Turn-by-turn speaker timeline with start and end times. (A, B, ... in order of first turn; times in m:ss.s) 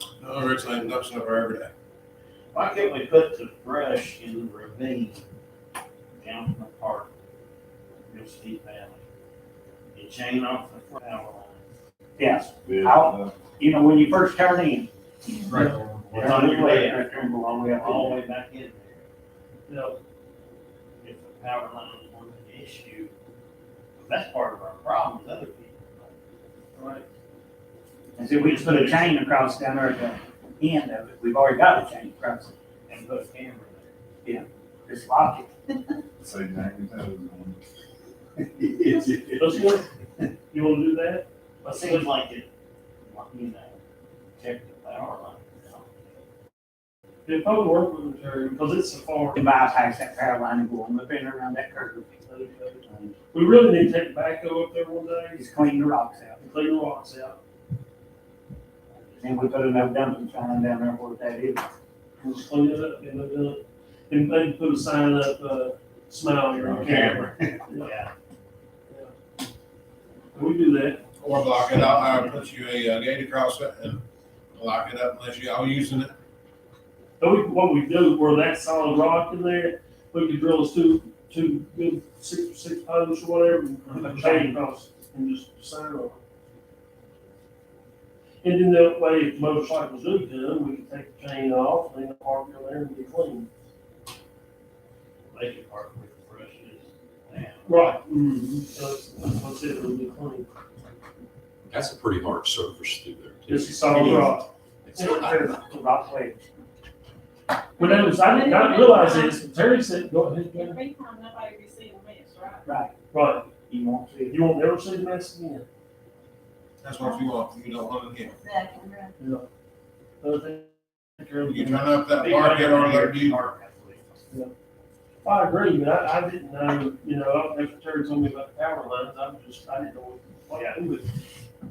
0:00.2-0:01.7 A
0:02.5-0:05.2 B
0:06.2-0:07.1 B
0:08.1-0:09.0 B
0:09.9-0:11.6 B
0:12.2-0:14.9 C
0:12.6-0:13.4 D
0:15.5-0:15.8 E
0:15.5-0:19.0 B
0:15.5-0:16.3 D
0:16.1-0:18.2 C
0:19.7-0:20.0 E
0:21.0-0:23.1 B
0:24.0-0:26.1 B
0:28.2-0:32.5 C
0:28.3-0:29.3 B
0:32.9-0:33.9 B
0:34.2-0:35.5 C
0:36.2-0:37.6 D
0:38.5-0:39.7 B
0:39.4-0:39.9 E
0:40.5-0:42.1 E
0:41.7-0:42.5 B
0:43.0-0:43.8 B
0:44.4-0:45.9 B
0:47.3-0:49.4 E
0:49.4-0:52.2 C
0:52.3-0:55.4 E
0:52.9-0:53.2 C
0:55.4-0:56.4 C
0:56.4-0:57.4 E
0:59.1-1:01.7 C
1:02.2-1:07.9 E
1:06.5-1:08.1 B
1:10.3-1:11.1 E
1:11.2-1:16.2 A
1:17.2-1:26.2 E
1:24.0-1:24.5 C
1:28.4-1:33.5 E
1:35.3-1:37.8 B
1:37.7-1:40.5 E
1:41.7-1:45.3 F
1:43.5-1:45.6 E
1:45.7-1:46.4 C
1:47.8-1:49.4 G
1:47.8-1:50.8 E
1:50.5-1:52.7 G
1:52.6-1:52.9 C
1:53.1-1:53.5 E
1:53.7-1:54.4 C
1:54.3-1:55.7 E
1:56.8-1:58.4 A
1:58.4-1:59.0 G
1:59.2-1:59.5 E
2:00.2-2:02.1 E
2:01.4-2:03.4 A
2:02.1-2:04.1 B
2:05.2-2:11.1 E
2:10.5-2:10.8 B